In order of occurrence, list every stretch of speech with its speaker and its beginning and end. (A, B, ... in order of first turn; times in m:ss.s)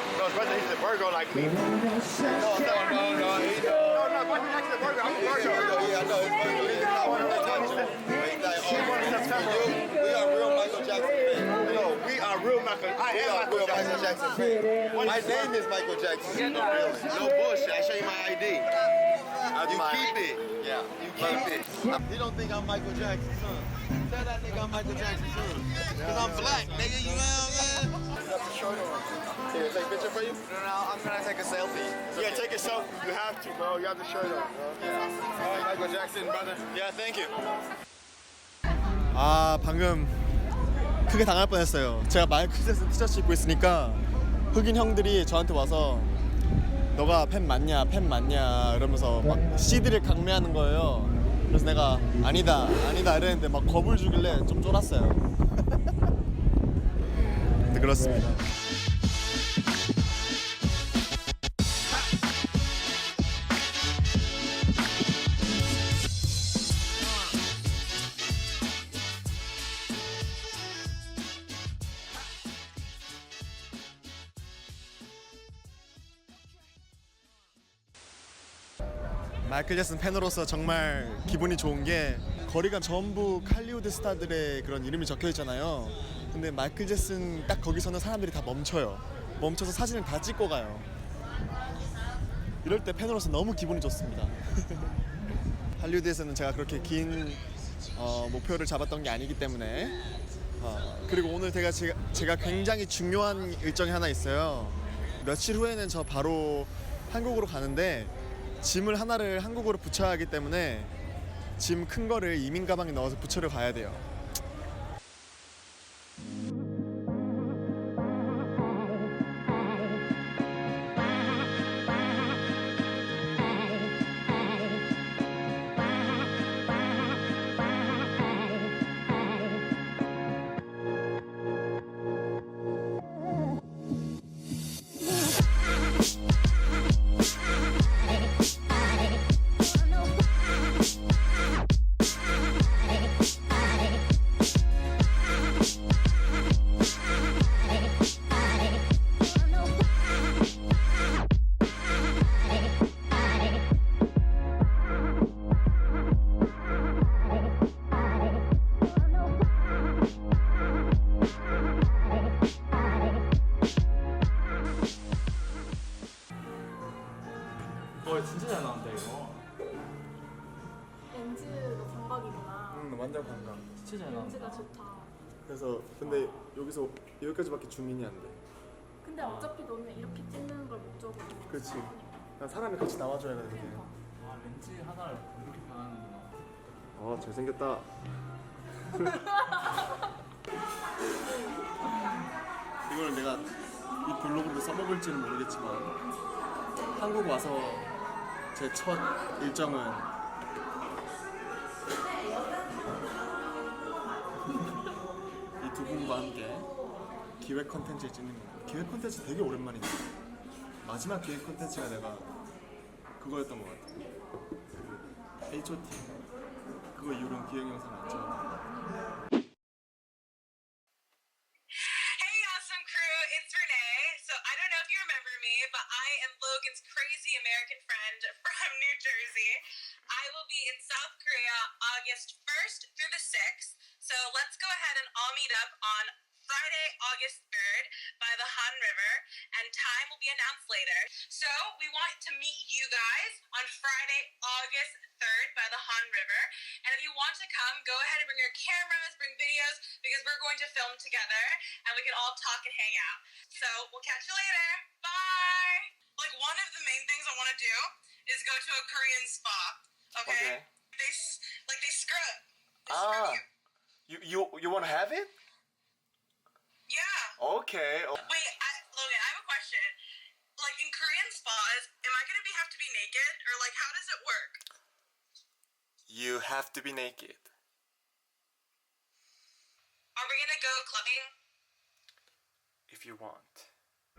0:00.2-0:01.5 A
0:02.2-0:18.7 A
0:06.7-0:07.8 B
0:13.2-0:14.0 B
0:16.8-0:17.1 B
0:19.5-0:20.1 B
0:19.6-0:32.6 A
0:25.9-0:26.9 B
0:32.0-0:33.7 B
0:33.6-0:34.8 A
0:35.4-0:36.7 A
0:36.7-0:37.3 B
0:39.1-0:40.3 B
0:41.1-0:46.2 B
0:46.9-0:55.3 B
0:57.5-0:58.4 B
1:19.4-1:30.9 B
1:32.6-1:34.9 B
1:35.8-1:37.4 B
1:38.0-1:40.0 B
1:40.6-1:50.9 B
1:51.6-1:54.1 B
2:48.0-2:49.4 C
2:51.1-2:52.9 D
2:52.7-2:53.7 B
2:53.8-2:54.7 C
2:54.0-2:55.1 D
2:55.4-2:58.4 B
2:59.0-3:02.2 D
3:01.5-3:03.9 B
3:04.3-3:06.4 C
3:07.0-3:07.9 B
3:08.9-3:09.3 B
3:12.9-3:13.5 B
3:14.0-3:16.0 B
3:17.0-3:17.9 B
3:18.5-3:20.1 B
3:25.6-3:26.7 B
3:27.4-3:30.1 B
3:30.8-3:32.3 B
3:33.2-3:34.0 B
3:35.5-3:36.2 B
3:36.9-3:38.7 B
3:41.8-3:49.6 E
3:50.1-4:23.4 E
4:20.3-4:20.7 B
4:22.9-4:23.4 B
4:24.1-4:25.3 B
4:26.9-4:27.3 E
4:27.4-4:28.2 B
4:28.2-4:30.0 E
4:30.6-4:34.6 E
4:36.1-4:37.5 B
4:40.2-4:41.3 E
4:42.9-4:43.7 B